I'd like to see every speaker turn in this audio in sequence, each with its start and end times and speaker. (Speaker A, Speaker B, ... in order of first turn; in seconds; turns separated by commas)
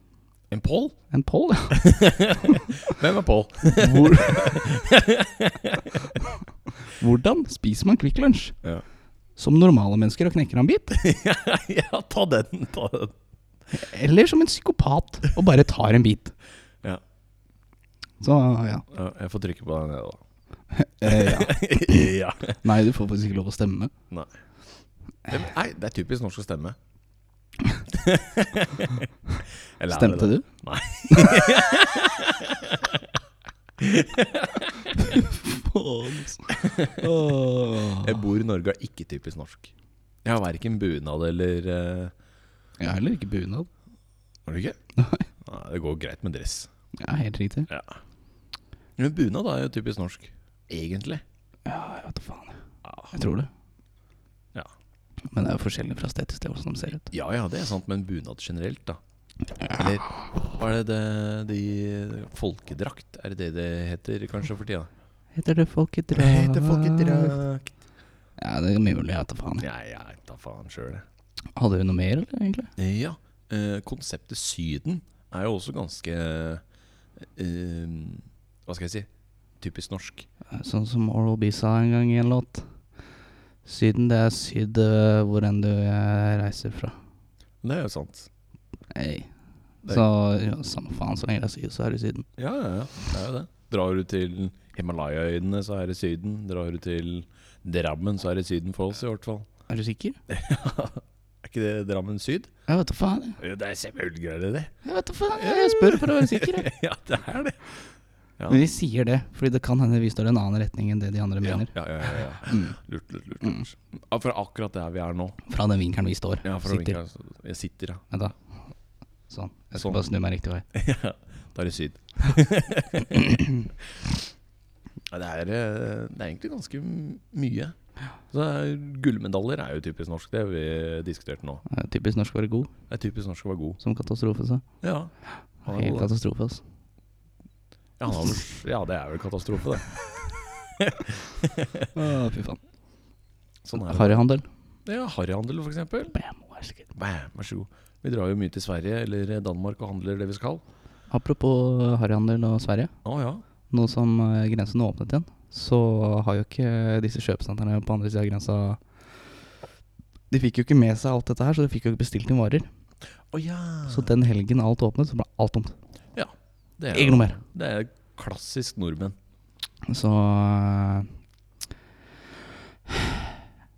Speaker A: 0.5-0.9, Speaker B: 1.1-1.9, Speaker A: 1.7-6.1, Speaker B: 2.5-2.9, Speaker B: 3.8-4.6, Speaker B: 6.9-8.6, Speaker B: 9.4-10.9, Speaker A: 10.9-13.2, Speaker B: 13.7-16.4, Speaker B: 18.2-18.9, Speaker A: 18.9-20.2, Speaker B: 20.7-23.9, Speaker A: 21.0-22.6, Speaker A: 25.3-26.8, Speaker A: 27.9-29.1, Speaker A: 29.8-33.2, Speaker B: 29.9-30.5, Speaker B: 31.1-31.4, Speaker A: 33.8-35.2, Speaker B: 35.0-38.2, Speaker A: 36.5-37.1, Speaker A: 37.9-39.7, Speaker A: 40.2-42.1, Speaker B: 42.8-43.7, Speaker A: 44.5-44.8, Speaker B: 45.0-45.3, Speaker A: 45.4-46.7, Speaker B: 47.0-47.7, Speaker A: 47.7-48.0, Speaker A: 49.0-51.2, Speaker B: 51.7-52.6, Speaker A: 52.8-53.1, Speaker B: 53.1-53.5, Speaker B: 55.2-57.1, Speaker A: 57.1-59.0, Speaker A: 59.7-64.9, Speaker B: 65.3-67.4, Speaker A: 66.1-67.7, Speaker B: 68.4-69.7, Speaker A: 69.6-71.1, Speaker B: 71.6-72.7, Speaker A: 72.8-76.6, Speaker A: 77.2-79.1, Speaker A: 79.6-80.3, Speaker B: 80.5-82.7, Speaker B: 83.7-87.0, Speaker A: 87.6-88.3, Speaker B: 88.9-89.3, Speaker B: 89.8-92.3, Speaker A: 92.4-99.5, Speaker B: 99.7-100.2, Speaker A: 100.3-102.5, Speaker B: 102.7-103.4, Speaker A: 103.4-104.7, Speaker B: 104.8-106.7, Speaker A: 105.3-107.8, Speaker B: 108.5-111.7, Speaker A: 111.4-115.4, Speaker B: 112.4-112.8, Speaker B: 115.5-117.0, Speaker A: 116.4-118.0, Speaker B: 119.3-120.7, Speaker A: 119.8-120.0, Speaker A: 120.7-123.4, Speaker A: 125.1-127.8, Speaker A: 128.3-131.6, Speaker B: 131.7-132.7, Speaker A: 132.9-133.8, Speaker B: 133.8-134.6, Speaker A: 134.8-135.1, Speaker A: 135.7-136.1, Speaker B: 135.7-136.6, Speaker A: 138.0-139.9, Speaker A: 140.8-141.9, Speaker B: 141.9-142.6, Speaker A: 143.6-144.2, Speaker B: 143.8-144.5, Speaker A: 144.9-146.2, Speaker B: 146.1-146.9, Speaker A: 146.9-150.6, Speaker B: 151.1-152.9, Speaker A: 153.1-153.4, Speaker B: 153.7-158.8, Speaker B: 160.3-162.7, Speaker A: 163.3-164.1, Speaker B: 163.9-165.8, Speaker A: 166.2-169.2, Speaker B: 166.9-167.4, Speaker B: 169.9-171.1, Speaker B: 172.9-173.3